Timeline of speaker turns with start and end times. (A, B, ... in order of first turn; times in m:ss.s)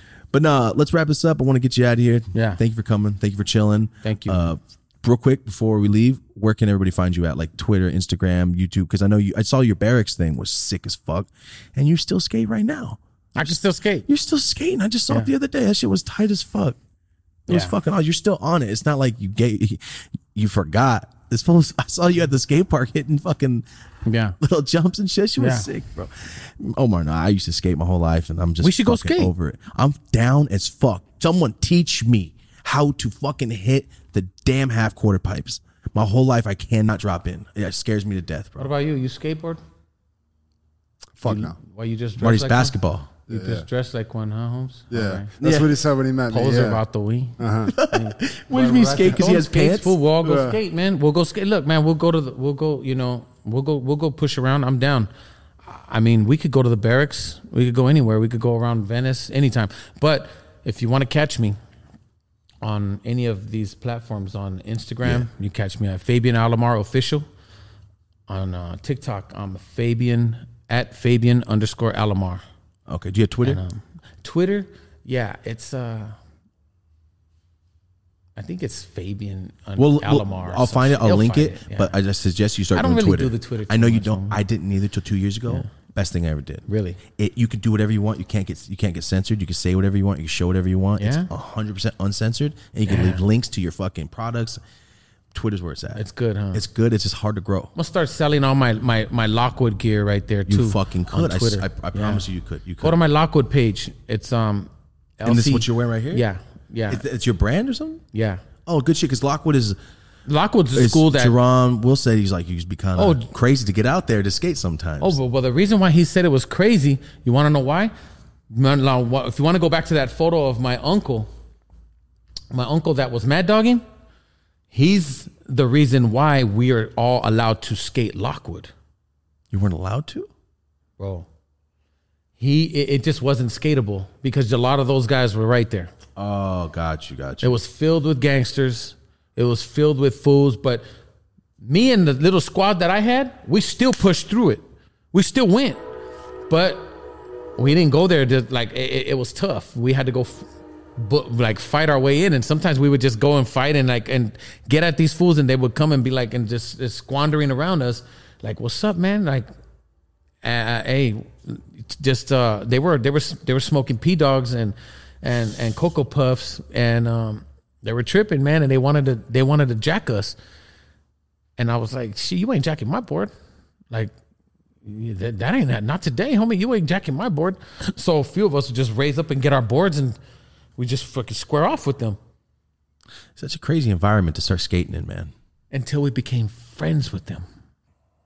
0:00.3-0:16.8 A
0:02.3-0:02.6 B
0:04.0-0:04.5 B
0:13.3-0:14.1 B
0:17.5-0:23.6 A
0:17.5-0:17.8 B
0:24.0-0:24.4 B
0:24.4-0:38.7 A
0:25.4-0:25.7 B
0:28.6-0:29.3 B
0:38.6-0:39.6 B
0:41.2-0:41.6 C
0:41.2-0:42.8 B
0:42.2-0:43.1 A
0:43.3-0:45.3 B
0:43.3-0:43.6 C
0:44.9-0:46.8 C
0:45.4-0:45.7 A
0:46.3-0:55.1 B
0:47.4-0:47.8 C
0:47.7-0:50.0 A
0:50.2-0:50.6 C
0:55.6-1:01.6 B
1:02.6-1:07.2 B
1:08.3-1:12.4 B
1:12.9-1:13.6 A
1:13.4-1:16.2 B
1:18.4-1:22.0 B
1:19.8-1:34.6 A
1:22.7-1:24.4 B
1:26.7-1:27.0 B
1:31.0-1:31.3 B
1:32.8-1:33.2 B
1:35.3-1:37.7 A
1:35.9-1:36.6 B
1:37.7-1:42.2 B
1:40.5-1:43.0 A
1:42.8-1:47.0 B
1:45.2-1:46.2 A
1:46.9-1:48.0 A
1:48.1-1:48.4 B
1:48.6-1:49.8 A
1:50.3-1:51.4 B
1:50.7-1:55.2 A
1:53.0-1:53.3 B
1:55.0-1:57.9 B
1:58.5-2:01.3 B
2:02.5-2:03.8 B
2:04.7-2:08.7 B
2:09.5-2:10.3 A
2:11.0-2:11.3 B
2:12.4-2:15.9 B
2:16.2-2:17.6 A
2:17.4-2:20.8 B
2:21.6-2:25.8 B
2:26.5-2:27.0 B
2:27.6-2:30.5 B
2:31.0-2:39.5 B
2:40.4-2:50.4 B
2:51.6-2:53.3 B
2:54.8-3:00.2 B
3:00.8-3:02.2 B
3:03.4-3:05.3 A
3:05.7-3:07.4 B